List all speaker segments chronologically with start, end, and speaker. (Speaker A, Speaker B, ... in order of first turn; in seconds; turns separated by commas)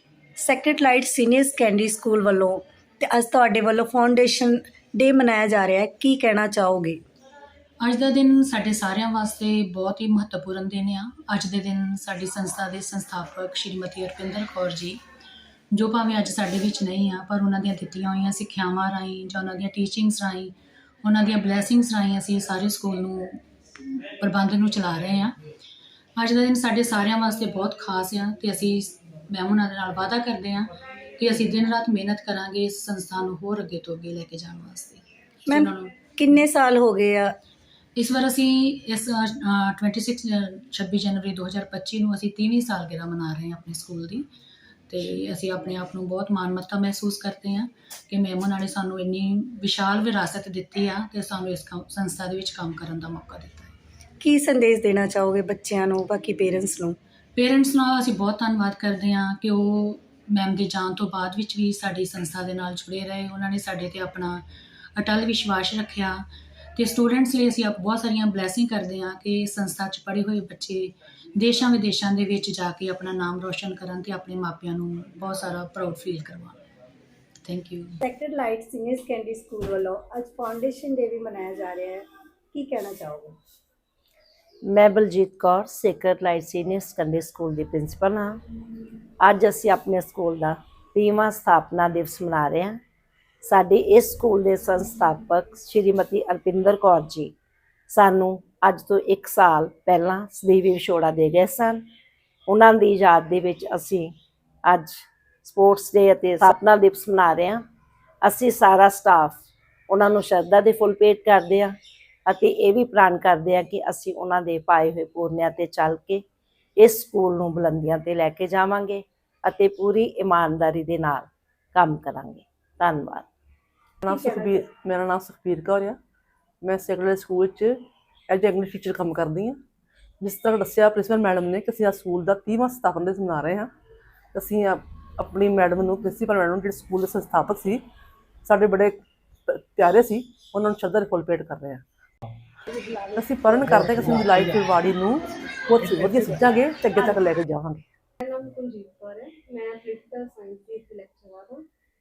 Speaker A: 0.4-7.0, Speaker B: 7.8-15.0, Speaker B: 15.7-25.4, Speaker B: 26.2-36.0, Speaker A: 35.5-37.3, Speaker B: 38.0-44.2, Speaker B: 44.9-53.7, Speaker A: 54.2-57.0, Speaker B: 57.4-64.4, Speaker B: 65.0-66.2, Speaker B: 66.8-76.6, Speaker B: 77.4-78.0, Speaker A: 78.1-83.3, Speaker C: 84.7-88.4, Speaker C: 89.2-92.8, Speaker C: 93.4-97.3, Speaker C: 97.9-101.8, Speaker C: 102.5-104.1, Speaker C: 104.7-107.6, Speaker C: 108.2-111.8, Speaker C: 112.3-116.2, Speaker C: 116.8-123.3, Speaker D: 124.0-126.0, Speaker A: 124.1-124.5, Speaker D: 126.6-127.8, Speaker D: 128.3-129.6, Speaker D: 130.2-133.7, Speaker D: 134.3-137.8, Speaker D: 138.4-141.8, Speaker D: 143.2-147.8, Speaker E: 148.2-151.7